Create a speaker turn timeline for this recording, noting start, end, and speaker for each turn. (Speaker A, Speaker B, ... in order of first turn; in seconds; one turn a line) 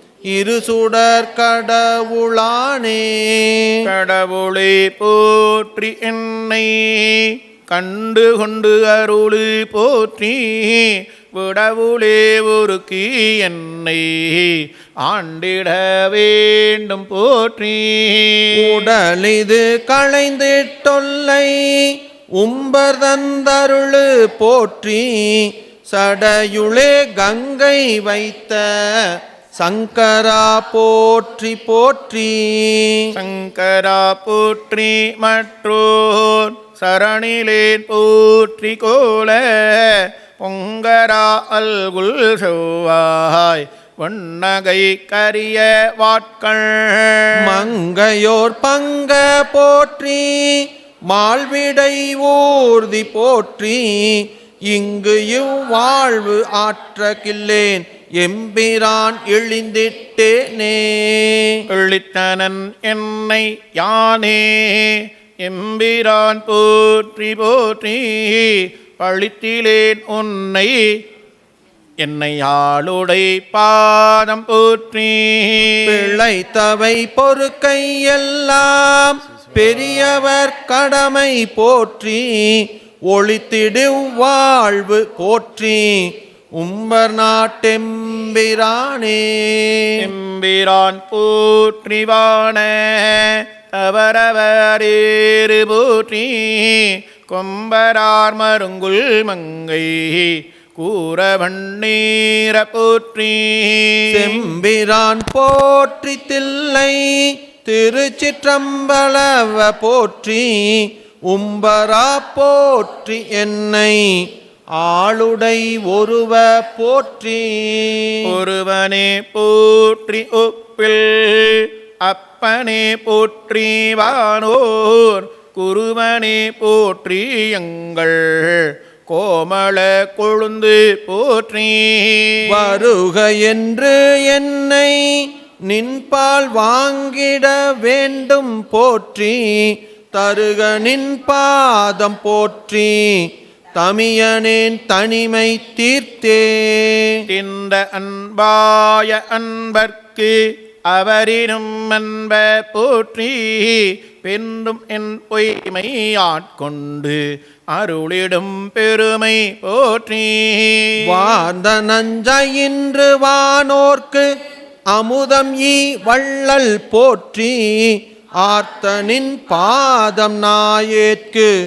Speaker A: 0.3-3.8
Speaker B: 3.8-18.9
Speaker A: 18.6-33.1
Speaker B: 33.1-47.7
Speaker A: 47.4-61.6
Speaker B: 61.7-70.9
Speaker B: 72.0-76.2
Speaker A: 75.8-90.1
Speaker B: 90.0-104.5
Speaker A: 104.1-114.2
Speaker A: 114.8-118.3
Speaker B: 118.2-132.7
Speaker A: 132.5-147.2
Speaker B: 147.3-161.2
Speaker A: 161.1-164.3
Speaker A: 164.9-171.5